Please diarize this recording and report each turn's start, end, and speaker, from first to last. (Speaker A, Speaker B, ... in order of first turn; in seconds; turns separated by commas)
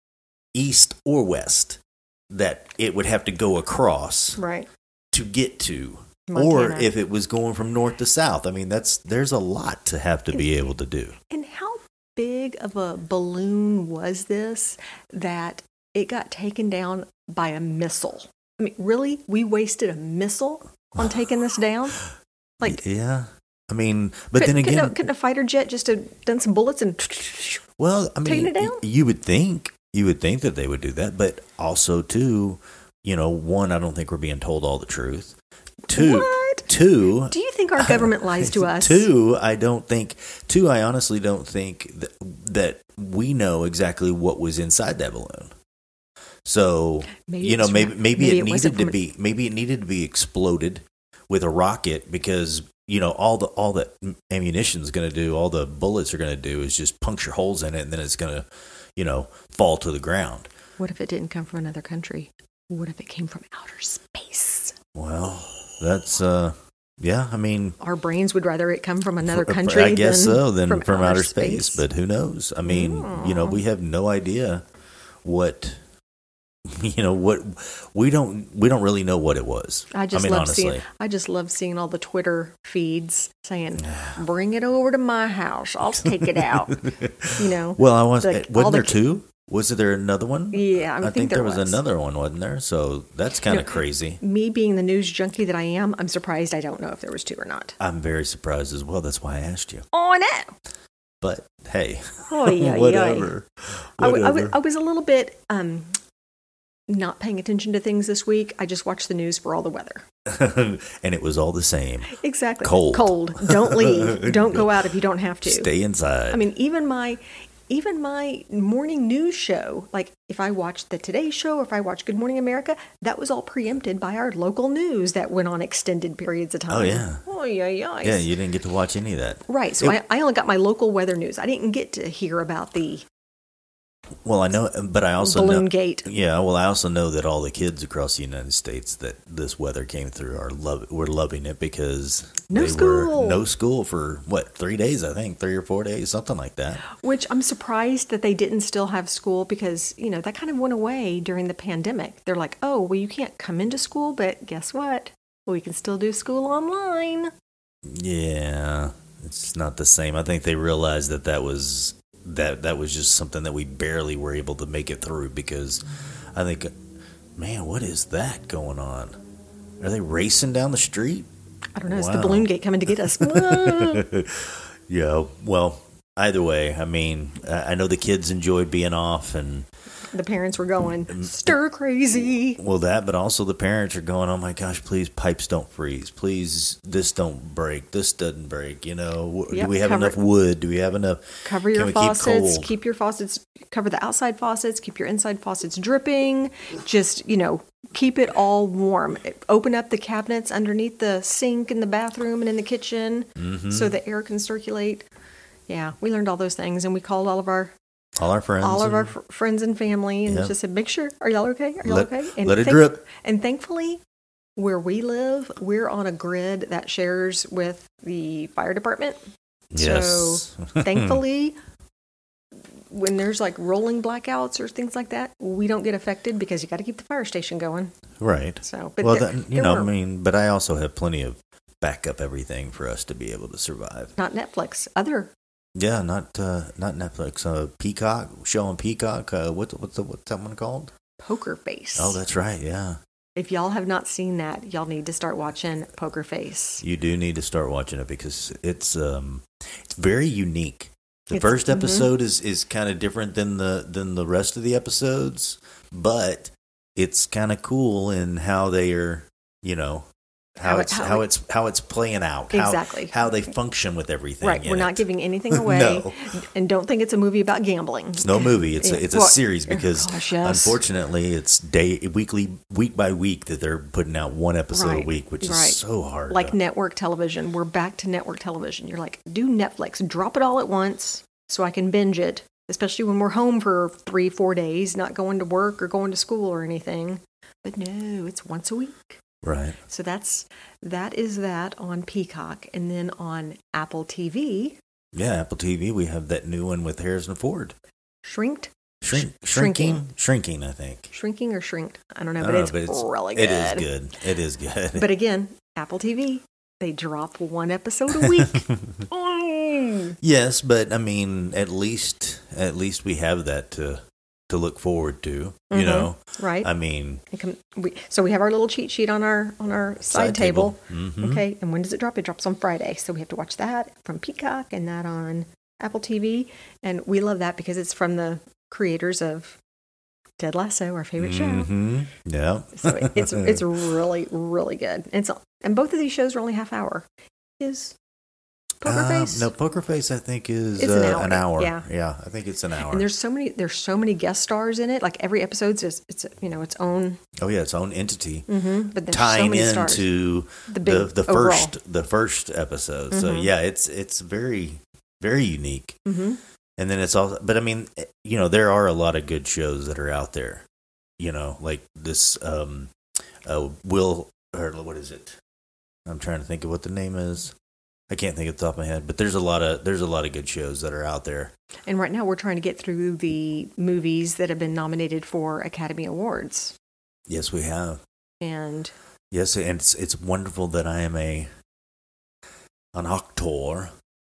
Speaker A: 0.5-4.4, Speaker B: 4.4-4.7, Speaker A: 5.1-11.2, Speaker B: 6.3-6.9, Speaker B: 11.3-22.0, Speaker A: 22.6-25.0, Speaker B: 24.4-27.6, Speaker A: 27.8-35.4, Speaker B: 28.2-28.8, Speaker A: 35.9-45.5, Speaker B: 35.9-36.7, Speaker B: 37.3-39.1, Speaker A: 46.4-60.5, Speaker B: 47.2-49.0, Speaker B: 60.8-64.8, Speaker A: 64.9-67.8, Speaker B: 67.8-71.8, Speaker A: 69.2-74.6, Speaker B: 72.6-73.6, Speaker A: 75.2-75.8, Speaker A: 76.7-80.8, Speaker B: 79.9-86.8, Speaker A: 83.8-84.2, Speaker A: 86.0-94.2, Speaker B: 87.3-89.0, Speaker B: 90.5-91.8, Speaker B: 93.5-97.8, Speaker A: 97.8-99.8, Speaker B: 99.9-100.5, Speaker A: 101.2-104.5, Speaker B: 102.3-103.3, Speaker B: 104.0-105.9, Speaker B: 106.9-110.0, Speaker A: 110.2-114.8, Speaker B: 112.1-115.7, Speaker A: 115.4-116.5, Speaker B: 116.3-128.3, Speaker A: 126.7-127.2, Speaker A: 128.0-129.9, Speaker B: 129.5-133.1, Speaker A: 134.2-146.8, Speaker B: 135.2-136.1, Speaker B: 142.5-143.4, Speaker B: 146.8-157.3, Speaker A: 157.8-165.8, Speaker A: 166.3-166.7, Speaker A: 167.4-169.2, Speaker A: 169.8-171.3, Speaker B: 171.8-174.0, Speaker A: 171.9-172.5, Speaker A: 173.1-179.7, Speaker B: 180.1-182.6, Speaker A: 181.1-181.5, Speaker A: 182.6-192.7, Speaker B: 189.5-190.2, Speaker B: 191.4-205.1, Speaker A: 203.4-203.9, Speaker B: 205.7-207.7, Speaker A: 208.2-209.1, Speaker B: 208.6-214.0, Speaker A: 210.3-210.5, Speaker A: 211.8-213.0, Speaker B: 214.6-219.2, Speaker A: 219.7-221.2, Speaker B: 219.7-221.6, Speaker B: 222.9-227.9, Speaker A: 228.2-234.1, Speaker B: 228.6-229.9, Speaker B: 234.2-235.3, Speaker A: 235.8-240.9, Speaker B: 241.2-242.2, Speaker A: 241.9-243.0, Speaker B: 243.3-246.8, Speaker A: 246.8-266.1, Speaker B: 251.3-252.1, Speaker B: 260.6-261.2, Speaker B: 262.5-263.1, Speaker B: 264.4-270.8, Speaker A: 268.2-276.5, Speaker B: 274.7-289.2, Speaker A: 289.4-289.8, Speaker B: 289.9-294.8, Speaker A: 295.1-297.7, Speaker B: 298.2-300.0, Speaker A: 299.0-301.1, Speaker B: 301.1-303.9, Speaker A: 302.4-305.1, Speaker B: 304.9-310.2, Speaker A: 308.1-309.0, Speaker A: 310.2-317.2, Speaker B: 315.7-316.7, Speaker B: 317.3-329.6, Speaker A: 320.1-321.4, Speaker B: 330.4-331.7, Speaker A: 331.2-333.7, Speaker B: 332.7-337.1, Speaker B: 337.6-337.9, Speaker B: 338.8-339.5, Speaker A: 338.8-343.1, Speaker B: 340.8-341.8, Speaker B: 342.9-347.2, Speaker A: 347.4-348.5, Speaker B: 348.5-350.1, Speaker A: 349.1-356.0, Speaker B: 350.7-351.7, Speaker B: 353.1-353.5, Speaker B: 356.1-356.4, Speaker A: 356.8-360.6, Speaker A: 361.2-362.9, Speaker A: 363.4-365.4, Speaker A: 366.1-367.5, Speaker A: 368.1-371.5, Speaker B: 371.9-376.7, Speaker A: 377.3-378.0, Speaker B: 378.4-378.9, Speaker A: 379.3-381.5, Speaker A: 382.9-383.9